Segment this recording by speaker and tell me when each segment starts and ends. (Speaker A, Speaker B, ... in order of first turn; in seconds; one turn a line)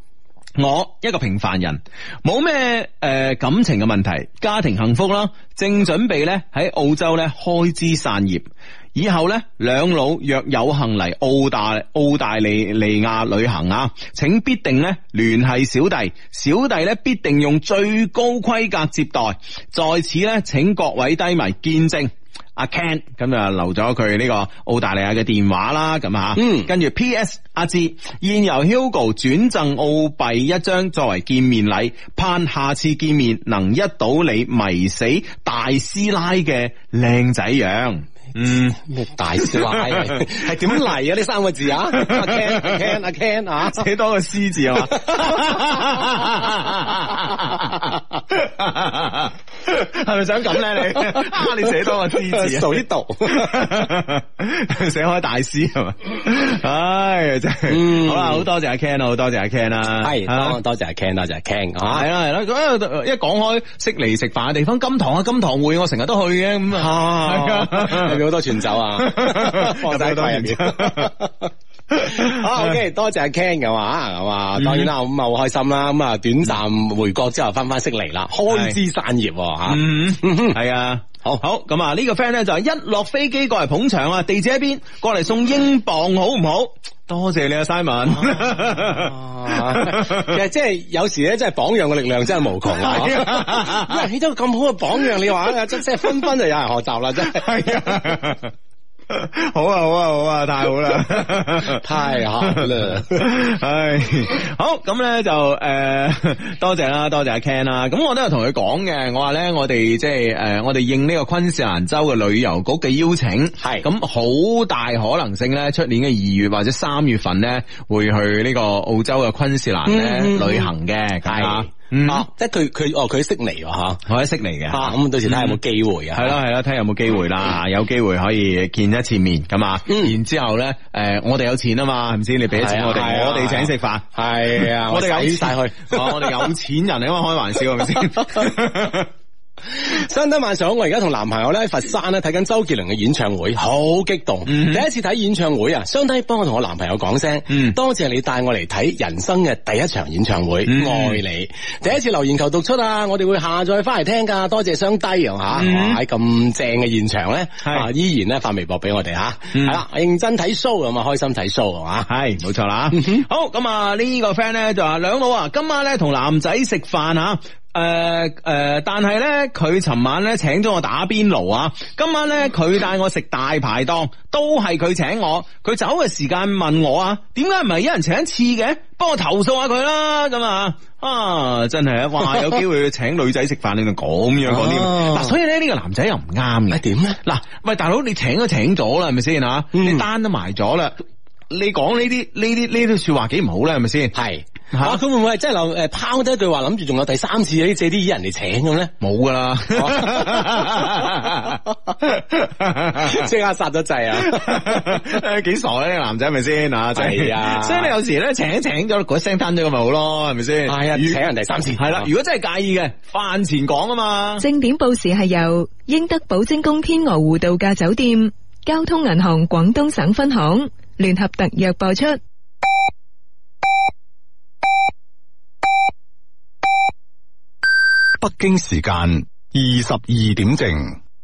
Speaker A: 0.6-38.8
Speaker B: 26.4-26.7
Speaker B: 38.8-43.9
Speaker A: 39.4-40.7
Speaker A: 41.9-42.9
Speaker A: 43.7-60.6
Speaker B: 44.9-45.5
Speaker B: 50.9-53.6
Speaker B: 57.7-58.5
Speaker B: 60.0-62.1
Speaker A: 61.9-68.2
Speaker B: 66.7-71.5
Speaker A: 69.0-71.1
Speaker A: 71.9-72.7
Speaker B: 72.0-80.6
Speaker A: 74.6-74.9
Speaker A: 78.5-78.8
Speaker A: 79.7-90.4
Speaker B: 88.2-97.5
Speaker A: 92.7-94.0
Speaker A: 97.2-98.5
Speaker A: 99.1-101.8
Speaker B: 101.7-103.2
Speaker A: 102.4-122.2
Speaker B: 113.6-113.9
Speaker B: 119.9-120.7
Speaker B: 121.2-124.0
Speaker A: 124.0-125.6
Speaker B: 124.7-126.4
Speaker A: 126.1-139.1
Speaker B: 129.9-130.1
Speaker B: 132.5-136.5
Speaker B: 139.7-162.1
Speaker A: 144.4-144.8
Speaker A: 147.5-147.8
Speaker A: 150.7-151.2
Speaker A: 155.5-156.0
Speaker A: 159.5-159.8
Speaker A: 162.1-190.9
Speaker B: 162.9-163.2
Speaker B: 184.4-185.3
Speaker B: 186.7-187.2
Speaker B: 189.7-190.0
Speaker A: 191.5-194.1
Speaker B: 194.1-198.9
Speaker A: 194.7-195.0
Speaker A: 199.0-203.3
Speaker B: 199.7-200.9
Speaker B: 202.9-205.0
Speaker A: 204.1-211.2
Speaker B: 206.9-207.9
Speaker B: 210.7-212.1
Speaker A: 211.8-214.4
Speaker C: 214.4-222.2
Speaker D: 228.2-231.0